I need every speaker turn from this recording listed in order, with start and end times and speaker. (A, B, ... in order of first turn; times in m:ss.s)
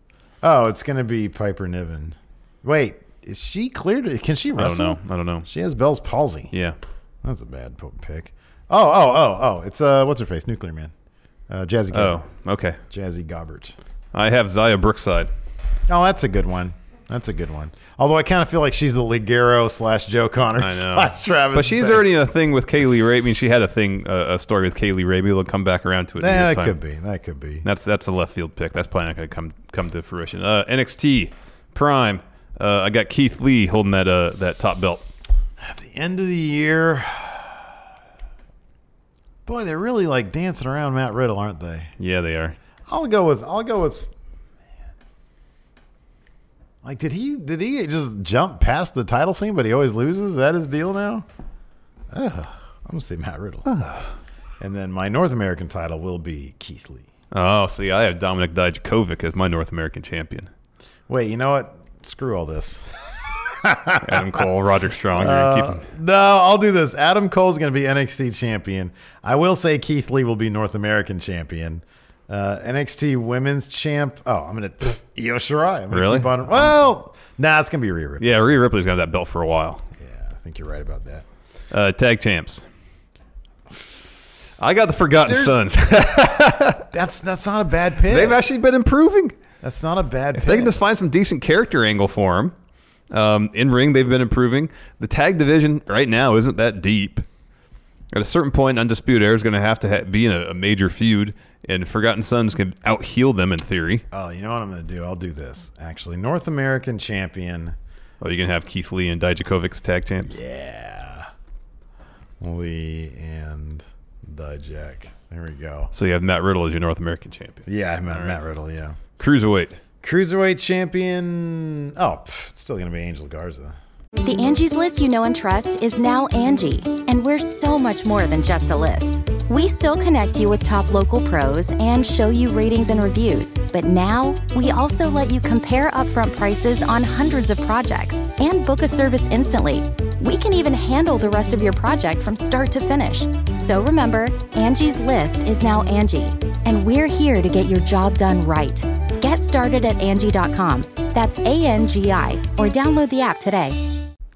0:00.4-0:06.5 A
0:04.6-0:05.5 B
0:06.5-0:06.8 B
0:07.2-0:10.9 A
0:11.5-0:12.2 A
0:11.9-0:12.8 B
0:12.9-0:13.8 A
0:14.1-0:15.3 B
0:15.9-0:22.1 A
0:20.6-0:26.8 B
0:26.2-0:27.7 A
0:27.6-0:35.1 B
0:35.6-0:37.8 A
0:39.5-0:41.9 A
0:42.0-0:42.6 B
0:42.9-0:44.1 A
0:46.8-0:51.3 A
0:52.1-0:53.7 A
0:53.7-0:54.1 B
0:54.6-0:57.1 A
0:57.3-1:00.5 B
1:01.1-1:02.8 A
1:03.4-1:04.4 A
1:04.0-1:05.8 B
1:05.1-1:18.6 A
1:15.9-1:16.4 B
1:18.2-1:19.8 B
1:20.0-1:21.2 A
1:21.7-1:22.6 B
1:24.6-1:26.8 B
1:25.2-1:26.3 A
1:26.9-1:28.4 A
1:28.1-1:29.4 B
1:29.6-1:30.8 A
1:30.4-1:32.6 B
1:33.1-1:37.3 B
1:38.1-1:44.0 B
1:44.1-1:47.8 A
1:48.2-1:50.4 B
1:50.3-1:51.3 A
1:52.4-1:55.9 A
1:55.9-1:58.4 B
1:57.7-1:59.0 A
1:59.2-1:59.8 B
2:00.0-2:03.8 A
2:04.2-2:33.8 C